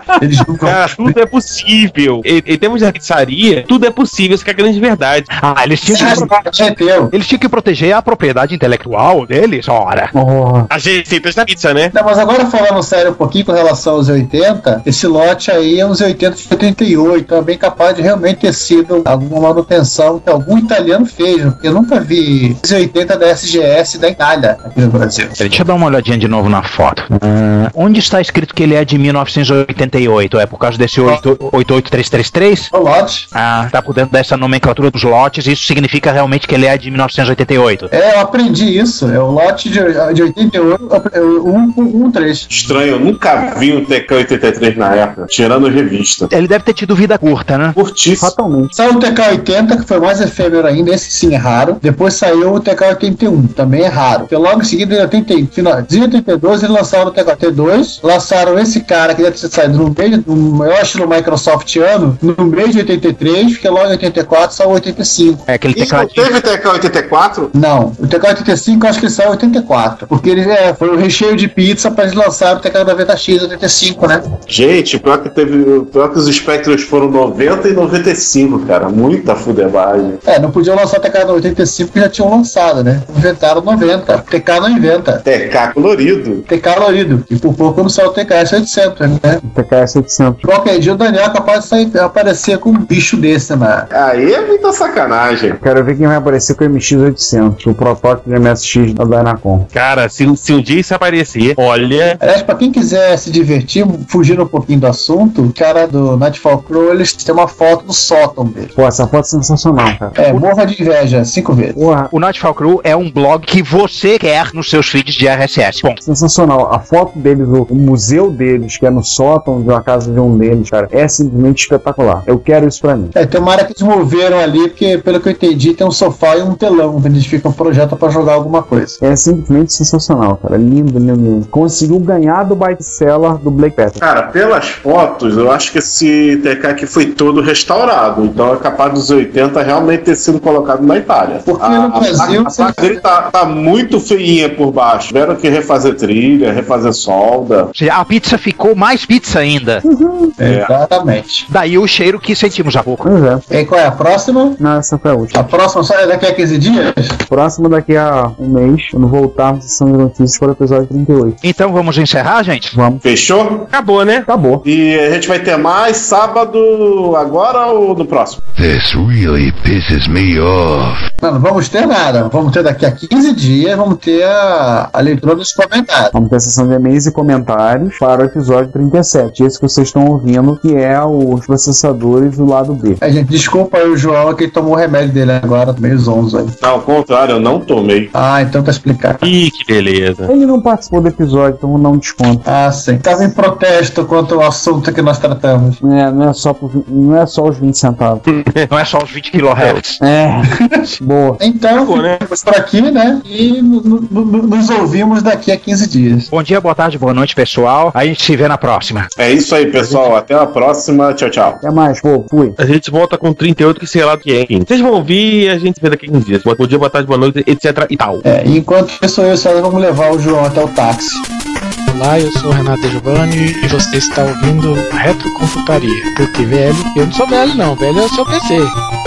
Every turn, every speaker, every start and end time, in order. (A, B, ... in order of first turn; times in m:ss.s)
0:00.2-0:01.2 A
0:00.6-0:05.3 B
0:05.4-0:06.4 C
0:05.9-0:07.1 A
0:07.1-0:10.1 C
0:10.1-0:10.7 D
0:10.7-0:11.9 B
0:11.9-0:25.4 A
0:25.4-0:32.7 C
0:32.7-0:33.3 A
0:33.3-0:37.9 C
0:37.9-0:42.5 A
0:42.5-0:46.3 E
0:46.3-0:47.8 C
0:47.8-0:48.4 E
0:48.2-0:48.7 D
0:48.7-1:05.5 A
1:05.5-1:06.3 C
1:05.8-1:07.5 E
1:07.5-1:14.2 A
1:14.5-1:20.2 E
1:20.2-1:25.2 A
1:25.3-1:26.5 E
1:26.5-1:29.4 A
1:29.4-1:30.4 D
1:30.4-1:33.9 A
1:33.9-1:35.6 E
1:35.6-1:39.7 D
1:39.7-1:42.2 B
1:42.2-1:48.7 A
1:48.8-1:50.2 D
1:50.2-1:51.9 A
1:51.8-1:52.1 D
1:52.1-1:56.0 C
1:56.0-2:03.1 D
2:03.1-2:09.0 A
2:09.0-2:14.0 D
2:14.0-2:27.7 E
2:21.5-2:22.9 A
2:27.8-2:29.8 C
2:29.8-2:30.4 D
2:30.4-2:31.5 A
2:30.4-2:30.7 E
2:31.5-2:33.1 C
2:33.0-2:33.4 D
2:33.5-2:34.6 A
2:34.6-2:35.4 D
2:35.3-2:37.2 A
2:37.3-2:41.4 D
2:41.4-2:42.8 C
2:42.7-2:43.0 D
2:43.0-2:43.7 E
2:43.7-2:44.3 B
2:44.3-2:44.6 D
2:44.6-2:48.4 E
2:48.6-2:51.1 F
2:51.2-2:56.1 A
2:56.1-3:03.0 D
3:03.0-3:06.6 A
3:06.6-3:08.1 E
3:08.1-3:09.3 A
3:09.2-3:10.3 B
3:10.3-3:12.4 D
3:12.5-3:15.8 A
3:15.8-3:18.2 D
3:18.3-3:18.7 B
3:18.7-3:20.0 C
3:19.4-3:19.8 B
3:20.0-3:21.4 D
3:21.4-3:26.3 A
3:21.8-3:22.2 B
3:26.3-3:29.1 C
3:29.2-3:31.6 E
3:29.8-3:30.1 B
3:31.6-3:32.6 D
3:32.6-3:38.2 B
3:38.2-3:41.2 A
3:41.9-3:48.7 G